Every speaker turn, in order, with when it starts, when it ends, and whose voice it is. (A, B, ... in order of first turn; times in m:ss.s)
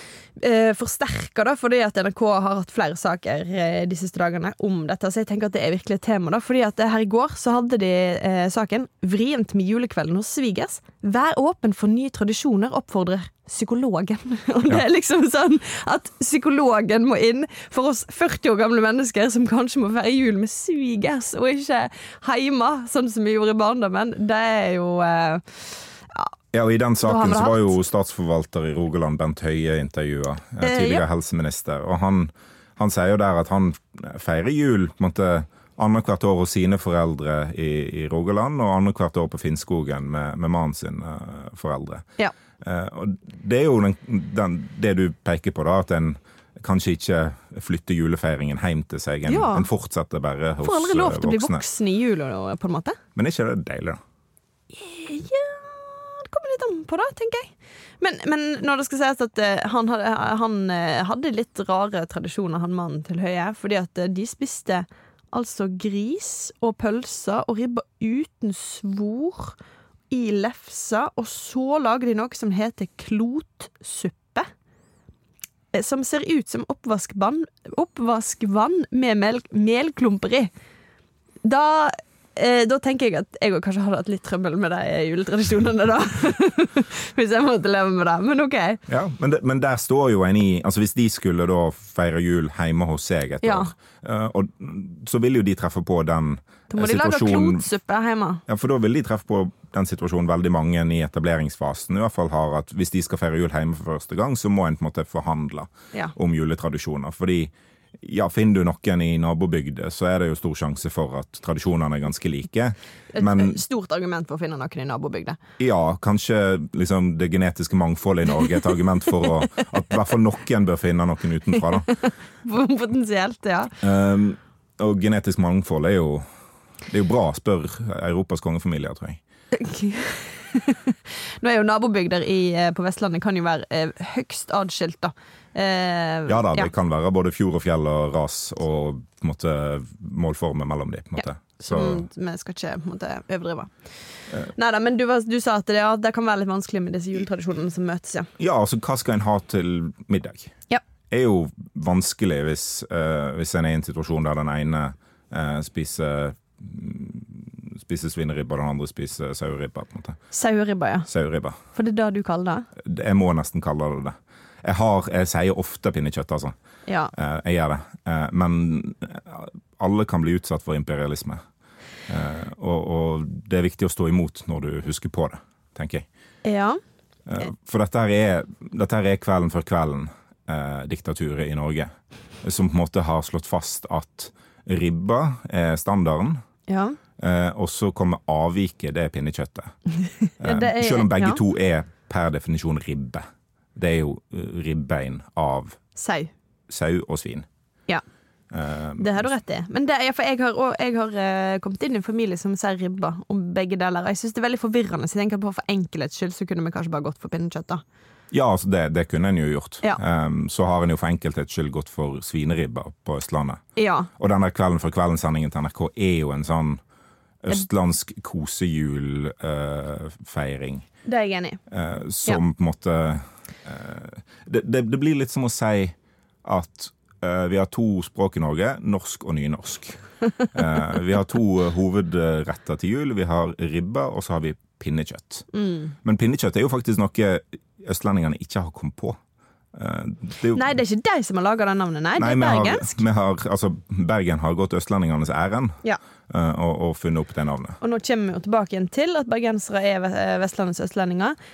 0:00.3-0:26.3 A
0:26.5-0:42.0 B
0:27.0-0:27.7 A
0:30.6-0:31.0 A
0:42.6-0:51.6 B
0:49.3-0:49.7 A
0:50.6-0:53.0 A
0:53.2-0:54.0 B
0:54.7-1:09.6 A
1:10.1-1:14.5 A
1:15.7-1:20.5 A
1:21.4-1:28.8 A
1:28.9-1:37.7 B
1:33.4-1:33.7 A
1:36.7-1:38.4 A
1:38.5-1:53.6 B
1:53.1-1:55.4 A
1:55.6-2:01.9 B
1:58.4-1:59.7 A
2:01.5-2:03.7 A
2:03.8-2:06.2 B
2:06.9-2:09.2 B
2:09.5-2:16.7 A
2:16.3-2:22.0 B
2:21.6-2:23.9 A
2:24.4-2:28.3 A
2:28.4-2:30.5 B
2:31.1-2:40.2 B
2:40.3-2:41.1 A
2:41.1-2:41.6 B
2:41.7-2:42.7 A
2:42.8-2:46.5 B
2:46.8-2:47.1 A
2:47.1-2:51.4 B
2:52.1-2:56.0 B
2:56.4-2:56.8 A
2:57.3-3:01.9 B
3:02.4-3:06.4 B
3:06.7-3:07.0 A
3:07.2-3:09.7 B
3:10.4-3:11.4 A
3:10.4-3:13.2 B
3:13.8-3:15.8 B
3:16.0-3:16.3 A
3:16.7-3:17.5 B
3:18.5-3:19.3 B
3:19.0-3:27.8 A
3:28.3-3:33.6 B
3:33.8-3:34.1 A
3:34.2-3:36.8 B
3:37.4-3:40.8 B
3:41.0-3:41.6 A
3:41.7-3:55.4 B
3:55.5-3:55.9 A
3:56.0-3:59.2 B
3:59.7-4:00.7 B
4:00.5-4:03.0 A
4:02.2-4:07.8 B
4:07.8-4:11.4 A